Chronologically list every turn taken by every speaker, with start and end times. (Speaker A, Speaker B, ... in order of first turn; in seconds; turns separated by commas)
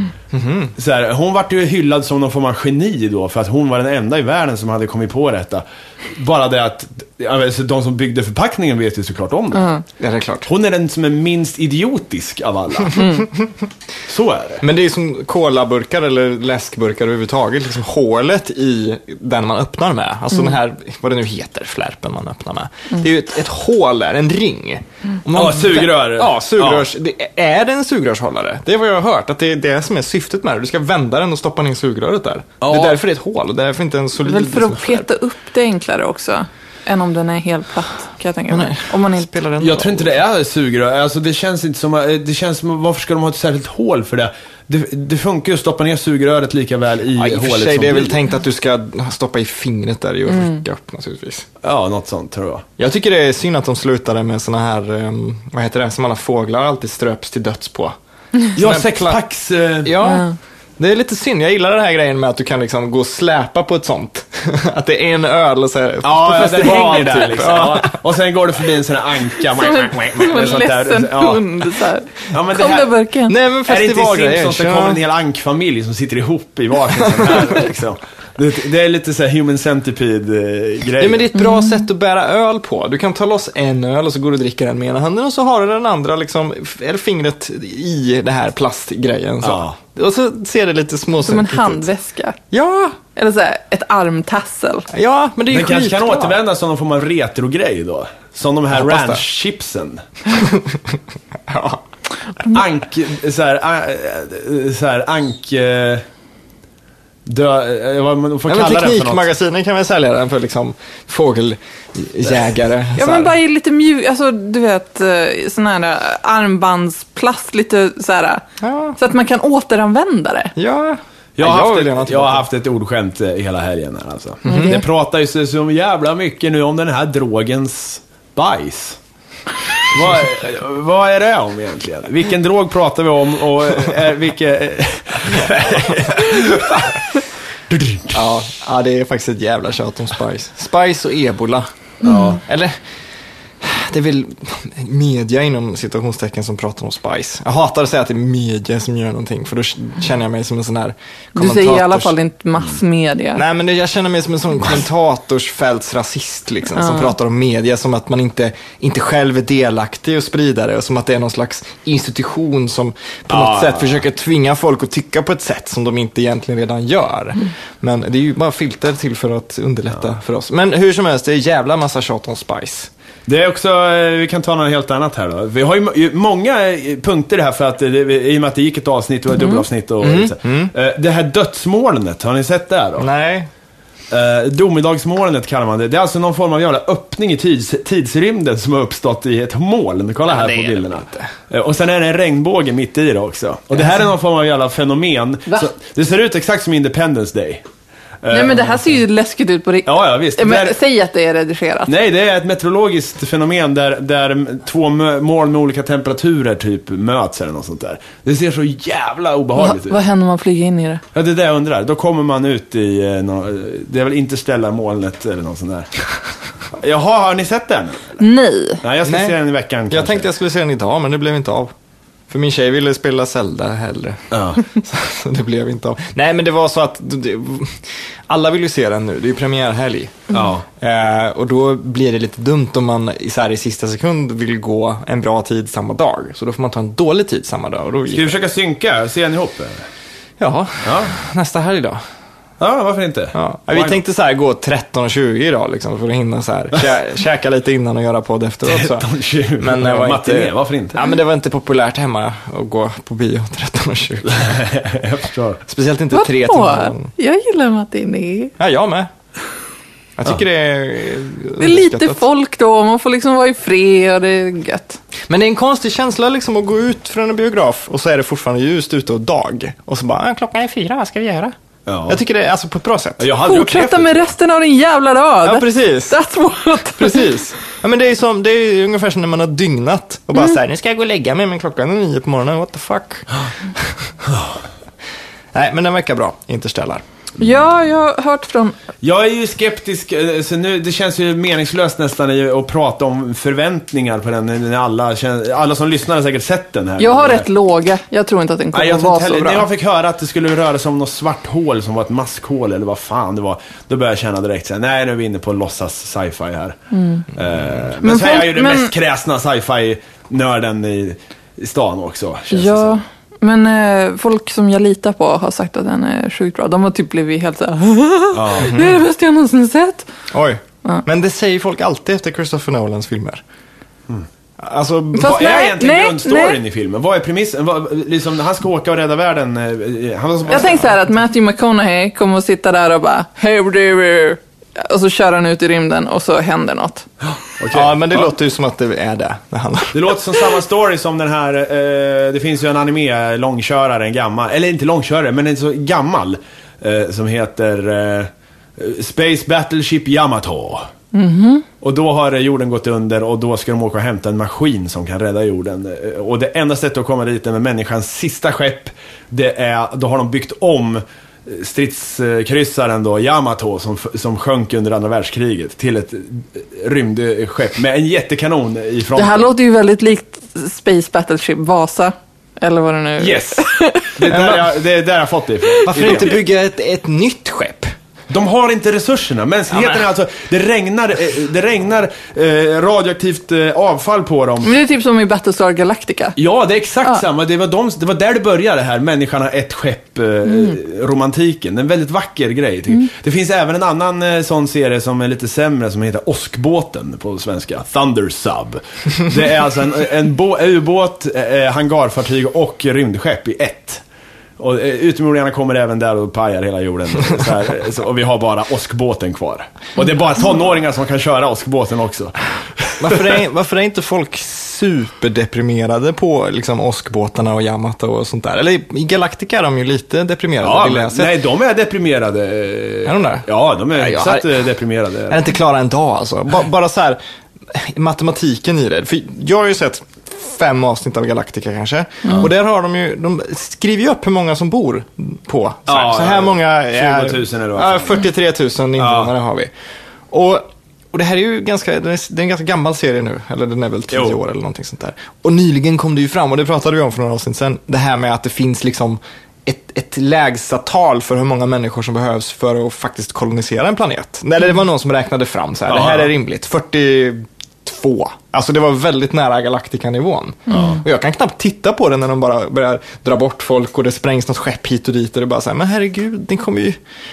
Speaker A: 0.3-0.7, Speaker B: 0.8-9.7, Speaker C: 9.6-9.8, Speaker A: 10.0-10.5, Speaker B: 10.5-13.1, Speaker C: 13.0-13.2, Speaker B: 14.1-14.6, Speaker A: 14.6-35.0, Speaker B: 25.3-26.9, Speaker B: 32.6-33.0, Speaker C: 34.2-39.3, Speaker A: 38.5-40.1, Speaker B: 39.6-48.2, Speaker A: 47.1-51.5, Speaker B: 51.6-52.6, Speaker A: 52.8-58.0, Speaker A: 58.5-59.2, Speaker B: 58.6-59.9, Speaker A: 59.8-68.0, Speaker C: 60.0-60.3, Speaker B: 66.0-71.6, Speaker C: 69.5-73.3, Speaker B: 72.3-72.9, Speaker A: 73.3-75.0, Speaker B: 73.7-81.3, Speaker A: 81.0-91.9, Speaker C: 81.3-81.8, Speaker B: 89.4-89.8, Speaker C: 91.2-92.4, Speaker A: 92.5-93.0, Speaker C: 93.1-94.9, Speaker A: 94.9-96.4, Speaker B: 95.5-100.0, Speaker A: 98.7-99.2, Speaker A: 100.3-101.8, Speaker B: 102.5-106.0, Speaker B: 107.3-109.3, Speaker A: 108.5-113.3, Speaker C: 113.0-118.4, Speaker A: 118.6-119.0, Speaker C: 119.0-120.5, Speaker A: 120.6-122.4, Speaker B: 121.4-129.0, Speaker C: 124.4-124.8, Speaker A: 124.5-124.8, Speaker B: 129.9-137.1, Speaker B: 137.7-138.2, Speaker A: 138.1-141.7, Speaker B: 142.0-142.4, Speaker A: 142.4-142.8, Speaker A: 143.6-152.1, Speaker C: 151.3-153.4, Speaker A: 153.4-172.9, Speaker C: 156.8-157.1, Speaker B: 163.3-164.0, Speaker B: 173.3-183.1, Speaker A: 180.0-180.7, Speaker A: 183.0-183.5, Speaker B: 184.1-197.6, Speaker A: 190.3-191.3, Speaker B: 198.2-198.8, Speaker C: 198.3-201.9, Speaker B: 199.9-200.8, Speaker B: 201.9-210.0, Speaker C: 209.6-211.0, Speaker B: 211.1-215.9, Speaker B: 216.7-218.2, Speaker C: 218.2-218.8, Speaker B: 218.8-220.3, Speaker A: 219.1-219.4, Speaker A: 219.9-221.7, Speaker A: 222.3-230.3, Speaker B: 224.3-224.6, Speaker B: 230.3-230.7, Speaker A: 230.8-238.3, Speaker B: 238.1-239.8, Speaker A: 240.4-242.0, Speaker B: 240.8-241.1, Speaker B: 242.6-244.0, Speaker A: 243.3-249.1, Speaker B: 248.6-251.0, Speaker A: 249.6-254.6, Speaker B: 254.3-255.6, Speaker A: 255.7-257.1, Speaker C: 256.1-258.5, Speaker A: 258.6-259.1, Speaker A: 260.2-262.2, Speaker C: 261.6-265.0, Speaker A: 265.3-271.6, Speaker B: 271.9-272.2, Speaker A: 272.1-273.3, Speaker B: 273.2-274.3, Speaker C: 273.5-277.3, Speaker A: 275.4-276.2, Speaker A: 277.0-283.3, Speaker A: 283.8-284.1, Speaker B: 284.3-284.6, Speaker A: 285.5-287.0, Speaker C: 287.4-288.8, Speaker B: 289.0-297.5, Speaker C: 297.0-299.7, Speaker B: 298.7-306.8, Speaker C: 306.9-307.2, Speaker B: 307.3-313.0, Speaker C: 308.0-308.9, Speaker C: 312.5-320.1, Speaker B: 318.3-319.0, Speaker A: 320.3-323.4, Speaker A: 324.6-325.4, Speaker B: 325.2-331.0, Speaker C: 325.2-326.6, Speaker C: 330.5-337.1, Speaker B: 337.2-338.3, Speaker A: 337.7-340.1, Speaker B: 339.9-350.9, Speaker C: 351.1-351.6, Speaker B: 351.8-369.5, Speaker C: 369.1-374.1, Speaker B: 373.2-373.6, Speaker B: 374.1-376.3, Speaker A: 374.3-374.7, Speaker A: 375.9-377.9, Speaker B: 378.3-384.8, Speaker A: 379.7-380.0, Speaker C: 384.6-386.4, Speaker B: 386.4-404.0, Speaker B: 404.6-413.4, Speaker A: 413.0-421.4, Speaker B: 420.6-425.4, Speaker A: 423.1-424.5, Speaker A: 425.3-427.2, Speaker A: 427.7-439.7, Speaker B: 435.9-438.2, Speaker B: 439.0-439.3, Speaker A: 440.3-467.0, Speaker B: 444.1-444.4, Speaker B: 455.9-456.3, Speaker B: 460.7-461.0